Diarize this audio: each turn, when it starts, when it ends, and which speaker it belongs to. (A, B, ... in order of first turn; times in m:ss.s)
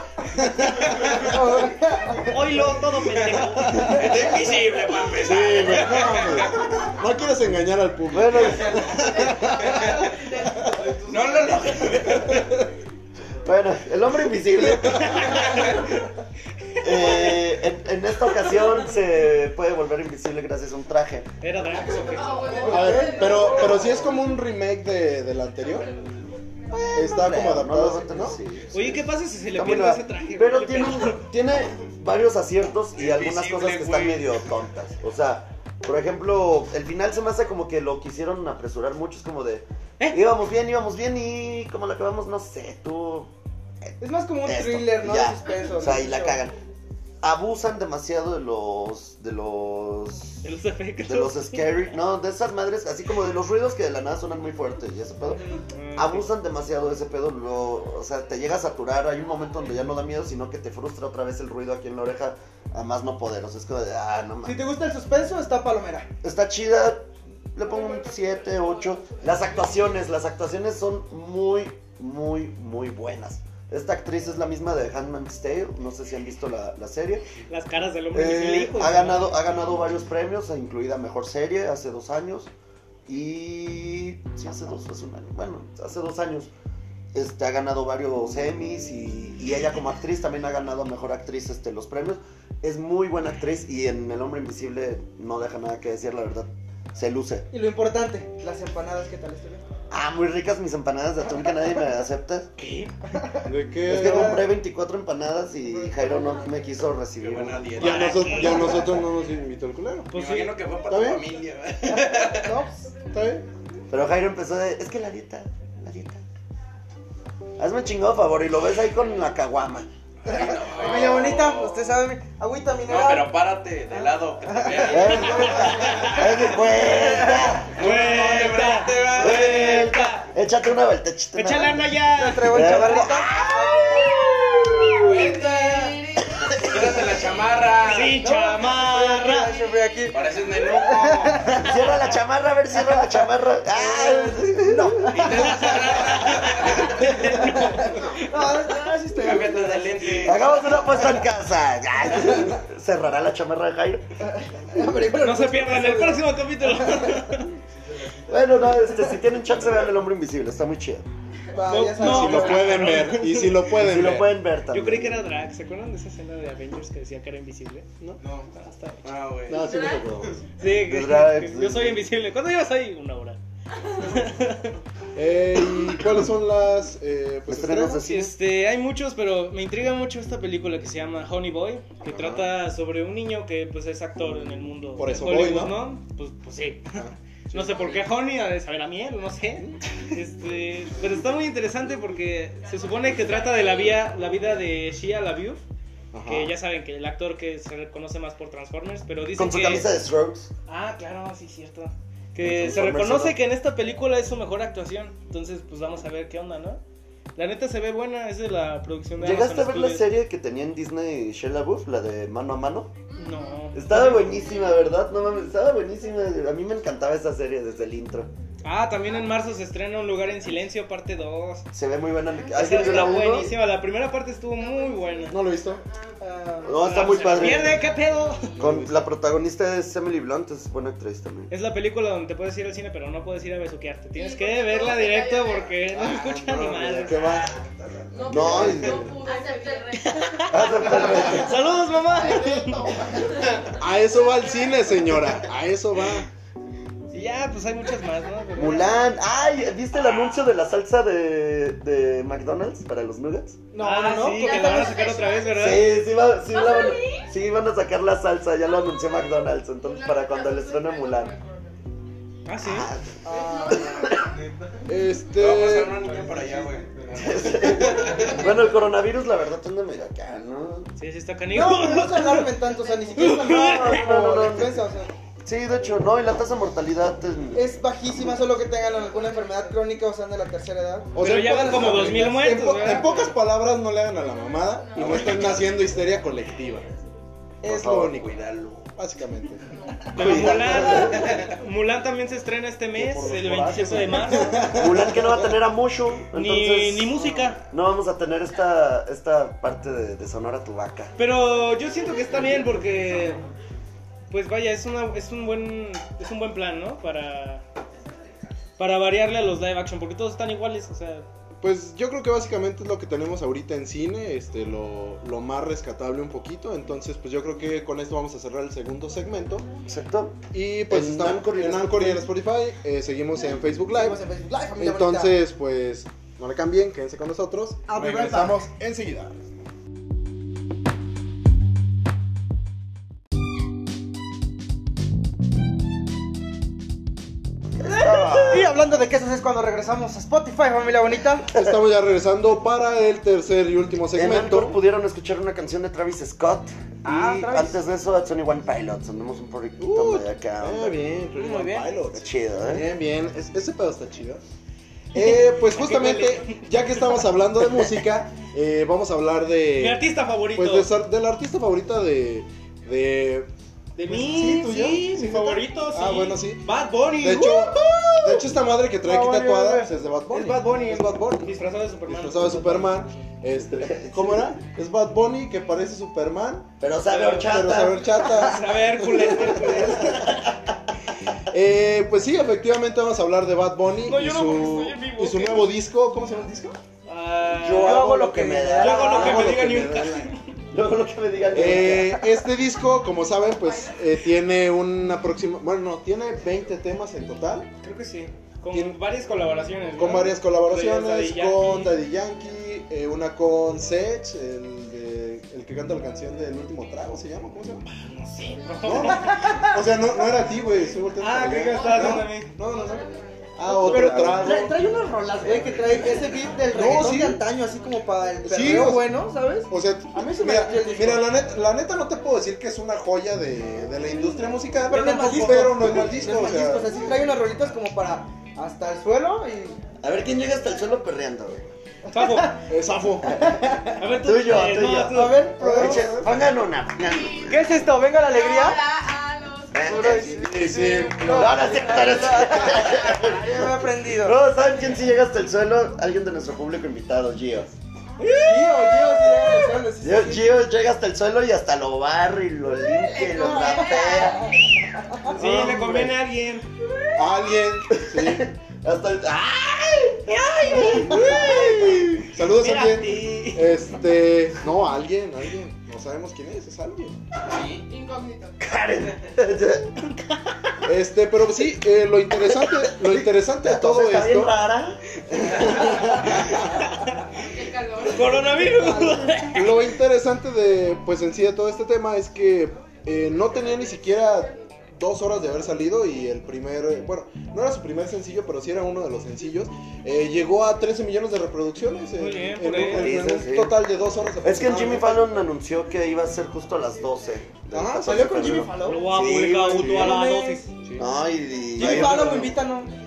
0:00.3-0:01.6 A
0:00.9-0:01.2 B
0:01.1-0:02.3 C
0:02.2-0:04.1 D
0:03.1-0:06.7 B
0:05.2-0:10.0 A
0:08.1-0:09.2 E
0:08.6-0:12.5 B
0:08.9-0:11.4 F
0:12.0-0:12.6 A
0:13.4-0:15.6 E
0:15.2-0:15.7 D
0:16.8-0:21.3 E
0:16.9-0:17.4 D
0:21.4-0:22.9 D
0:21.9-0:24.1 F
0:22.4-0:23.9 C
0:22.6-0:25.9 A
0:26.7-0:43.3 E
0:26.9-0:28.4 A
0:28.7-0:31.3 D
0:33.0-0:34.4 B
0:43.8-0:46.6 E
0:44.0-0:46.4 C
0:47.2-0:50.4 E
0:50.4-0:51.8 D
0:51.0-0:55.4 E
0:55.7-0:56.3 D
0:55.9-1:04.6 E
1:04.4-1:06.1 C
1:06.2-1:17.3 E
1:17.5-1:19.6 D
1:18.1-1:22.5 E
1:23.1-1:26.5 E
1:27.1-1:37.5 E
1:37.5-1:39.6 C
1:39.9-1:42.5 E
1:42.6-1:43.2 D
1:43.4-1:44.5 A
1:43.8-1:48.8 E
1:47.2-1:48.5 B
1:47.8-1:50.1 A
1:47.8-1:48.9 D
1:50.1-1:50.6 D
1:50.1-1:52.6 B
1:50.9-1:51.2 A
1:51.9-1:52.9 C
1:53.1-1:53.4 A
1:53.9-1:56.2 E
1:57.6-1:59.9 E
2:00.2-2:01.9 B
2:00.3-2:03.4 C
2:02.8-2:09.9 B
2:03.9-2:06.1 C
2:04.9-2:07.9 E
2:07.7-2:10.3 D
2:09.1-2:11.9 E
2:11.3-2:14.2 D
2:12.1-2:13.8 C
2:12.5-2:15.3 E
2:15.0-2:18.2 B
2:16.4-2:17.1 E
2:17.8-2:19.6 D
2:18.2-2:21.7 C
2:20.1-2:21.5 B
2:21.5-2:25.3 E
2:23.7-2:25.6 C
2:25.1-2:27.2 B
2:25.3-2:28.1 D
2:27.2-2:30.3 C
2:29.2-2:31.0 B
2:30.2-2:34.1 E
2:34.2-2:37.2 C
2:35.2-2:37.5 D
2:37.8-2:38.6 B
2:38.3-2:41.0 E
2:41.5-2:42.9 C
2:41.6-2:43.7 D
2:42.0-2:44.4 A
2:43.7-2:45.2 E
2:44.7-2:47.8 D
2:48.2-2:48.5 B
2:48.5-2:49.0 D
2:49.0-2:50.4 B
2:49.5-2:50.3 A
2:49.6-2:50.0 E
2:49.6-2:50.2 F
2:50.6-2:53.4 D
2:50.7-2:52.0 E
2:54.0-2:54.7 D
2:55.1-2:58.0 A
2:57.5-2:58.3 E
2:58.0-3:15.6 D
3:02.1-3:02.5 A
3:05.0-3:05.8 A
3:06.9-3:07.8 A
3:12.8-3:14.0 F
3:16.1-3:16.5 A
3:16.2-3:19.9 D
3:19.3-3:20.5 E
3:20.7-3:26.8 D
3:22.4-3:23.4 E
3:27.3-3:30.1 D
3:29.2-3:32.9 E
3:33.2-3:34.3 D
3:33.7-3:38.3 E
3:34.2-3:34.6 F
3:38.6-3:41.7 D
3:41.7-3:43.5 E
3:42.3-3:43.5 F
3:42.5-3:45.4 D
3:44.6-3:48.6 F
3:45.3-3:45.8 A
3:46.2-3:46.9 C
3:46.6-3:47.9 E
3:46.8-3:48.6 D
3:48.6-3:49.1 A
3:48.6-3:51.5 E
3:51.5-3:57.5 D
3:54.1-3:55.9 F
3:56.0-3:57.5 A
3:56.0-3:58.3 B
3:58.1-4:05.0 F
3:58.3-3:59.2 E
3:58.4-3:59.2 A
3:59.9-4:03.1 D
4:00.5-4:01.6 E
4:03.8-4:06.3 A
4:07.1-4:09.0 D
4:08.6-4:13.6 E
4:13.7-4:15.0 C
4:13.8-4:16.0 D
4:14.3-4:17.3 F
4:15.5-4:21.3 E
4:19.8-4:21.8 F
4:22.4-4:22.9 D
4:22.6-4:24.3 E
4:23.2-4:24.1 C
4:23.3-4:24.3 F
4:24.3-4:24.8 B
4:24.8-4:26.1 A
4:25.3-4:28.5 B
4:27.1-4:30.9 E
4:31.0-4:32.6 D
4:31.5-4:35.1 C
4:33.1-4:34.1 D
4:33.3-4:34.9 E
4:35.4-4:37.8 E
4:37.5-4:41.2 C
4:41.1-4:46.9 A
4:41.2-4:43.3 D
4:44.6-4:46.0 F
4:45.0-4:45.7 B
4:47.6-4:49.6 A
4:47.6-4:48.2 E
4:48.1-4:48.9 B
4:49.7-4:50.2 F
4:50.1-4:51.4 E
4:50.1-4:54.8 D
4:50.2-4:50.5 A
4:50.8-4:51.3 F
4:51.2-4:51.6 B
4:53.0-5:01.1 E
4:53.0-4:55.4 A
4:56.3-4:57.6 D
5:01.2-5:03.4 D
5:04.3-5:07.6 D
5:08.8-5:11.2 D
5:11.6-5:19.7 A
5:19.8-5:22.3 E
5:20.5-5:24.2 A
5:23.9-5:25.4 C
5:24.8-5:29.4 A
5:27.9-5:28.6 C
5:37.8-5:38.7 E
5:38.4-5:41.5 C
5:41.5-5:44.8 A
5:44.1-5:46.7 E
5:47.0-5:47.8 C
5:47.1-5:47.5 A
5:47.2-5:51.0 E
5:49.8-5:54.4 A
5:51.4-5:51.9 D
5:52.1-5:52.8 E
5:55.1-6:03.5 A
5:55.1-5:57.2 D
5:59.8-6:00.9 D
6:04.0-6:08.5 D
6:04.1-6:16.7 A
6:09.0-6:13.1 D
6:13.5-6:14.6 E
6:16.8-6:18.2 E
6:17.1-6:17.5 D
6:17.2-6:20.3 A
6:18.2-6:20.4 D
6:19.6-6:20.5 E
6:21.5-6:26.8 A
6:24.0-6:25.7 D
6:27.0-6:28.1 D
6:27.4-6:29.7 E
6:27.7-6:29.4 C
6:28.8-6:30.4 D
6:29.0-6:30.3 A
6:30.7-6:32.2 E
6:31.5-6:37.7 A
6:37.8-6:42.0 D
6:38.7-6:39.0 A
6:40.0-6:47.8 A
6:47.9-6:49.8 D
6:48.8-6:54.7 A
6:51.2-6:52.5 D
6:51.8-6:53.6 F
6:53.7-7:01.4 C
6:53.8-6:54.6 E
6:56.7-6:57.4 A
6:58.4-7:06.9 A
7:04.9-7:09.8 C
7:04.9-7:05.7 D
7:10.0-7:11.7 E
7:12.1-7:12.5 C
7:12.1-7:12.6 D
7:12.7-7:13.4 A
7:13.4-7:14.0 C
7:14.0-7:15.5 D
7:14.0-7:17.8 E
7:15.1-7:16.1 C
7:15.6-7:16.4 A
7:17.0-7:20.3 F
7:17.5-7:18.8 C
7:19.7-7:20.5 E
7:19.8-7:24.4 C
7:20.2-7:22.4 A
7:21.3-7:27.7 E
7:28.2-7:29.7 D
7:28.4-7:30.6 C
7:30.0-7:34.7 E
7:32.9-7:34.8 F
7:33.4-7:34.5 C
7:35.3-7:36.7 D
7:35.3-7:36.2 A
7:37.1-7:38.5 A
7:37.9-7:42.0 E
7:40.3-7:43.7 D
7:40.8-7:47.2 A
7:47.5-7:47.8 B
7:47.8-7:48.6 F
7:48.6-7:50.0 E
7:50.8-7:54.5 A
7:52.5-7:55.7 E
7:55.4-7:56.5 A
7:57.4-7:59.0 F
7:58.0-7:59.7 D
7:58.6-7:59.4 C
7:59.5-8:15.3 A
8:12.2-8:13.2 D
8:12.8-8:13.8 E
8:14.4-8:20.1 E
8:17.7-8:18.6 A
8:18.0-8:20.6 C
8:18.8-8:20.7 D
8:19.7-8:20.2 A
8:20.8-8:21.1 A
8:21.0-8:22.6 E
8:21.7-8:22.9 C
8:21.8-8:22.6 A